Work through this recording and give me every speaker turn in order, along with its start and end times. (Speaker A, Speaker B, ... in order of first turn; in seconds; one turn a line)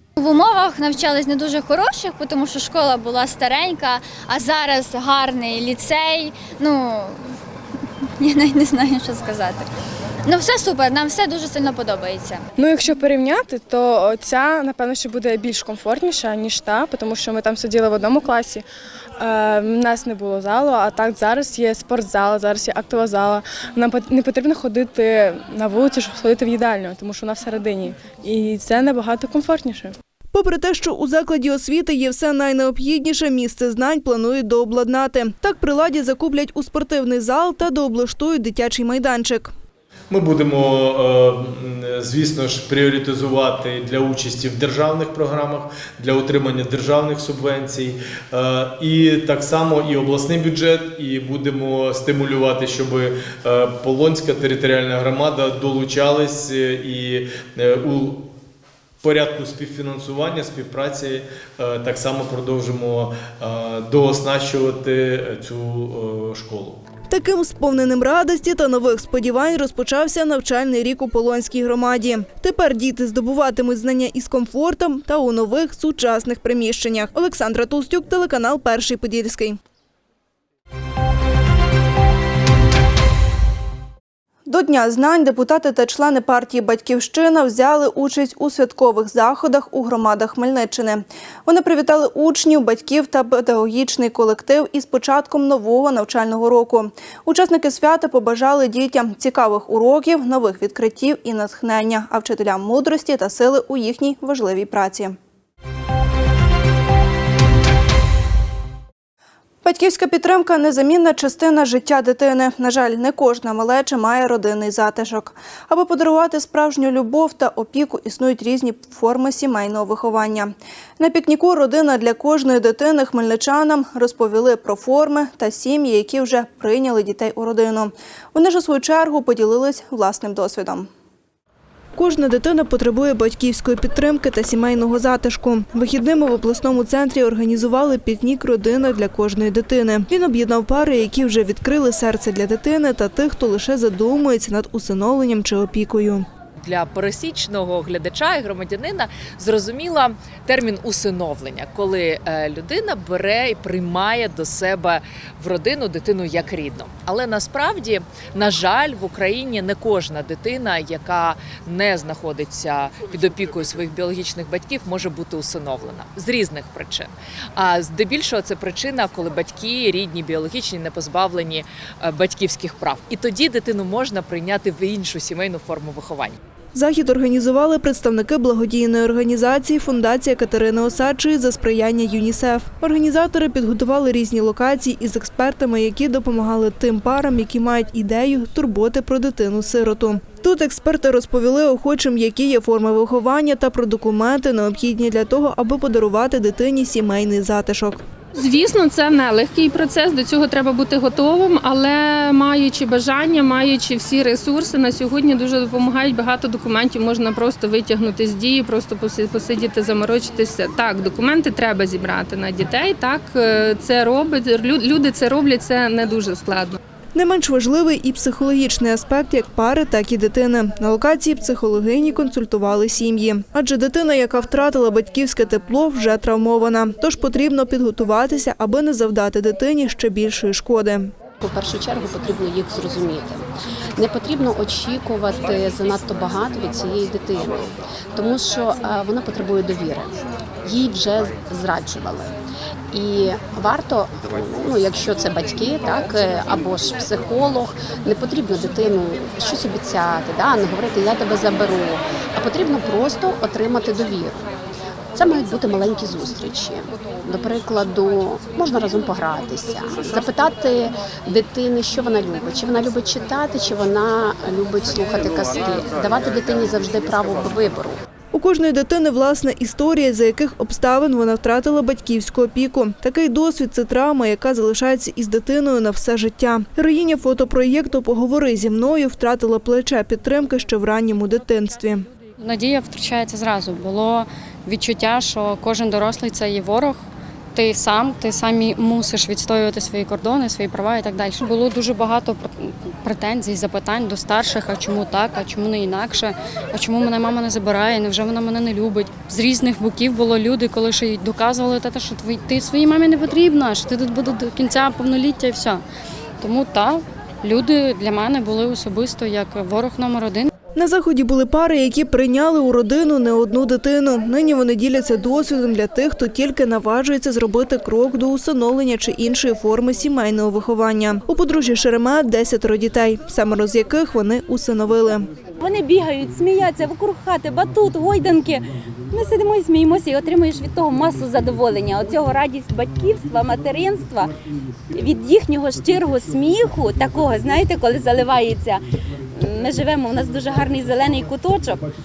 Speaker A: 0.2-7.2
Speaker A: 8.2-9.7
Speaker A: 10.3-12.4
Speaker B: 12.6-18.6
Speaker B: 19.2-29.9
Speaker C: 30.3-39.5
Speaker D: 40.1-58.2
Speaker D: 59.0-66.8
Speaker C: 67.1-79.6
Speaker C: 84.5-105.2
Speaker C: 109.6-130.9
Speaker C: 131.9-146.3
Speaker E: 146.6-176.4
Speaker C: 176.7-198.0
Speaker F: 198.3-216.8
Speaker C: 217.2-231.1
Speaker G: 231.4-237.6
Speaker G: 238.1-240.1
Speaker G: 240.7-242.3
Speaker G: 242.9-254.4
Speaker G: 255.1-268.0
Speaker C: 268.3-282.1
Speaker H: 282.4-287.0
Speaker H: 287.5-305.8
Speaker H: 306.4-310.5
Speaker C: 310.8-325.3
Speaker I: 325.6-334.3
Speaker I: 334.9-338.8
Speaker I: 339.3-341.8